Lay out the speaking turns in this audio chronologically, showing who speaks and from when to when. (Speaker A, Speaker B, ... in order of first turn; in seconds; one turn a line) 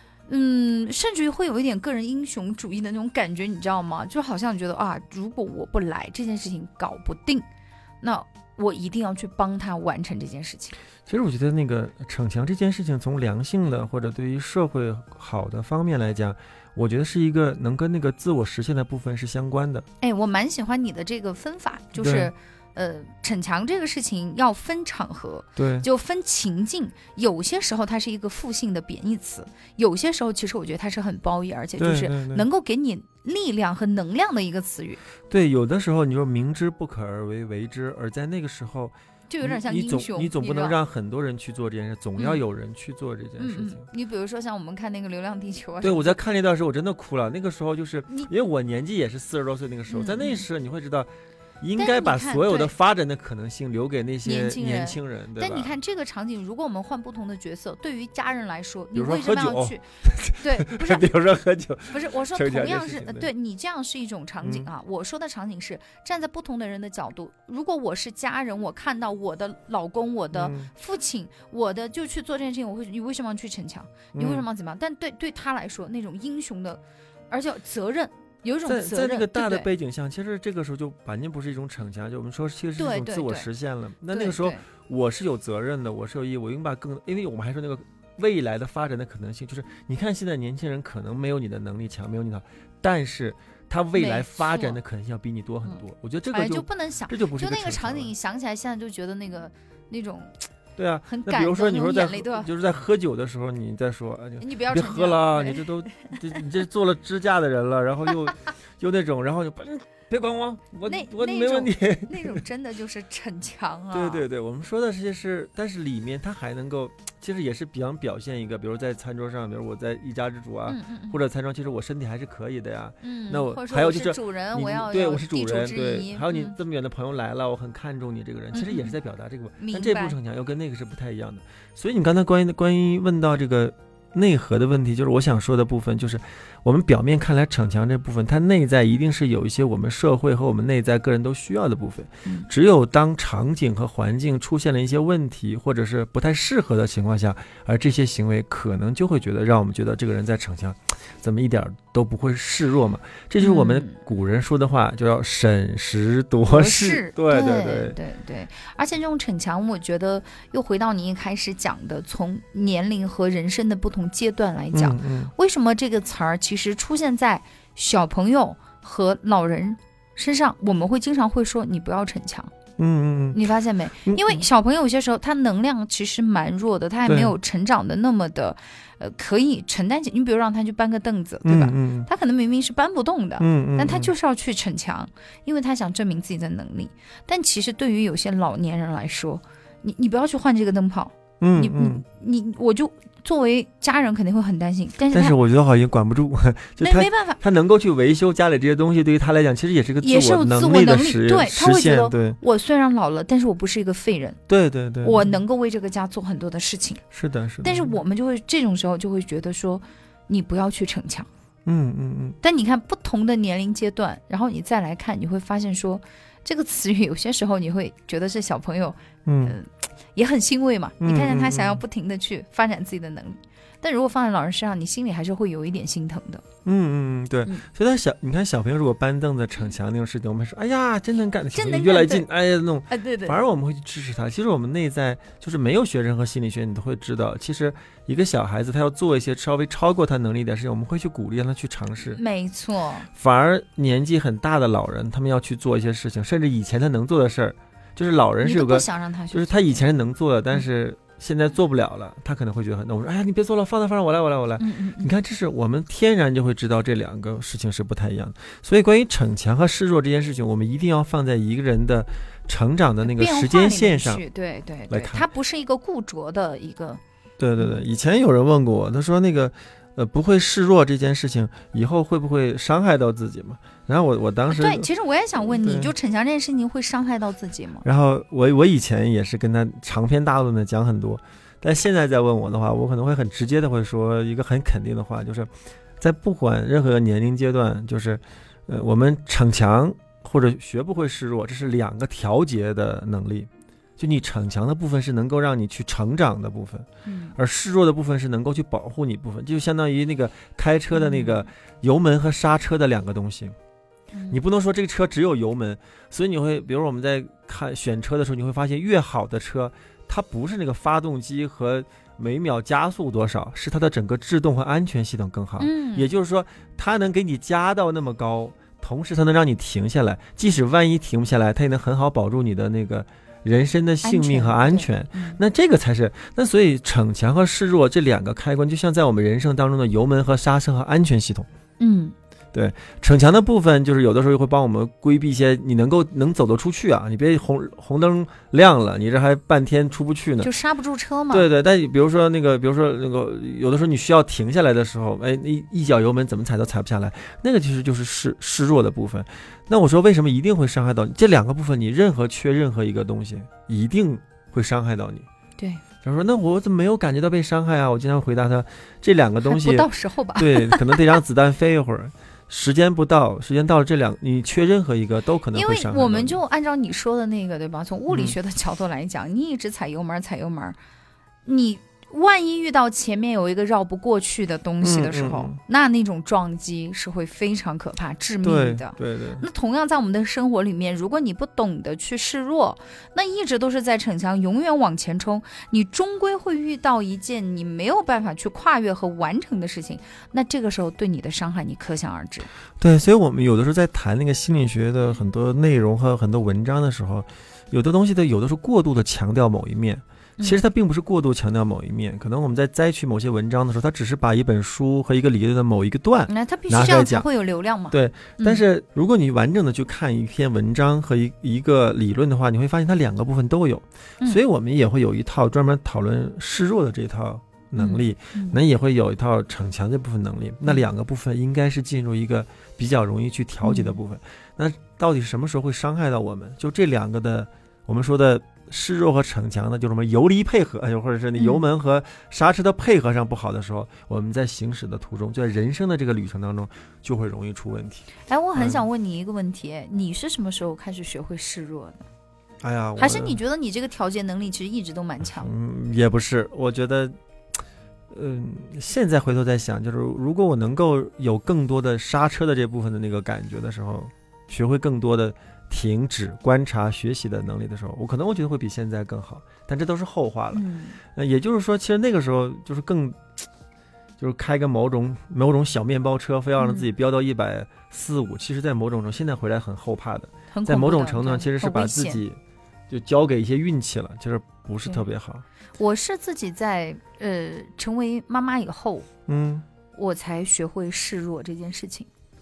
Speaker A: 0.3-7.4
Speaker A: 8.0-10.8
Speaker B: 11.1-19.9
Speaker A: 20.0-35.0
Speaker B: 21.9-22.3
Speaker B: 25.6-25.9
Speaker B: 31.8-32.5
Speaker B: 35.3-43.8
Speaker A: 39.3-40.8
Speaker A: 43.4-46.2
Speaker B: 45.8-55.7
Speaker A: 49.9-50.5
Speaker A: 51.8-52.7
Speaker A: 54.2-59.8
Speaker B: 58.9-63.3
Speaker A: 60.4-61.0
Speaker A: 61.9-79.7
Speaker B: 64.4-64.7
Speaker B: 70.3-70.7
Speaker B: 74.1-74.5
Speaker B: 78.6-98.1
Speaker A: 82.8-83.5
Speaker A: 84.1-84.6
Speaker A: 93.9-94.8
Speaker A: 96.3-100.3
Speaker B: 100.8-112.4
Speaker A: 101.1-102.5
Speaker A: 104.4-106.4
Speaker A: 110.8-114.2
Speaker B: 113.9-158.0
Speaker A: 120.7-121.2
Speaker A: 123.0-126.5
Speaker A: 128.5-128.9
Speaker A: 129.6-130.2
Speaker A: 153.4-154.0
Speaker A: 156.4-172.5
Speaker B: 164.7-165.3
Speaker B: 172.8-173.5
Speaker A: 173.3-195.3
Speaker B: 174.0-174.4
Speaker B: 177.1-177.3
Speaker B: 181.4-182.1
Speaker B: 183.4-184.1
Speaker B: 191.4-192.0
Speaker B: 195.1-202.4
Speaker A: 196.8-197.4
Speaker A: 200.0-204.4
Speaker B: 204.5-205.4
Speaker A: 205.0-207.0
Speaker B: 207.1-207.9
Speaker A: 207.6-211.3
Speaker B: 211.7-212.4
Speaker A: 212.4-226.4
Speaker B: 219.2-219.6
Speaker B: 221.0-221.8
Speaker B: 226.6-242.2
Speaker A: 231.5-232.3
Speaker A: 232.9-233.4
Speaker A: 242.1-243.1
Speaker B: 243.1-264.2
Speaker A: 248.4-249.8
Speaker A: 254.6-255.1
Speaker A: 263.0-267.0
Speaker B: 264.9-265.2
Speaker B: 267.4-274.9
Speaker A: 274.5-277.8
Speaker B: 275.4-275.9
Speaker B: 277.8-303.6
Speaker A: 297.0-297.4
Speaker A: 300.9-301.4
Speaker A: 304.1-304.4
Speaker B: 304.3-331.5
Speaker A: 315.6-316.1
Speaker A: 324.0-325.4
Speaker A: 331.8-332.1
Speaker B: 332.5-340.5
Speaker A: 340.4-341.5
Speaker B: 341.3-355.3
Speaker A: 355.6-355.8
Speaker B: 356.0-366.4
Speaker A: 359.4-361.2
Speaker A: 365.5-370.8
Speaker B: 368.1-368.4
Speaker A: 371.4-392.5
Speaker B: 374.8-375.6
Speaker B: 378.4-379.4
Speaker B: 392.8-407.3
Speaker A: 406.3-408.6
Speaker B: 407.9-438.8
Speaker A: 417.8-418.6
Speaker A: 423.6-424.0
Speaker A: 431.4-431.6
Speaker A: 438.3-442.1
Speaker B: 442.6-443.4
Speaker A: 443.0-445.5
Speaker B: 445.2-447.1
Speaker B: 448.1-463.4
Speaker A: 460.5-461.0
Speaker B: 464.2-475.4
Speaker A: 466.6-466.9
Speaker A: 470.5-472.2
Speaker A: 475.8-479.1
Speaker B: 479.3-479.6
Speaker A: 479.9-482.1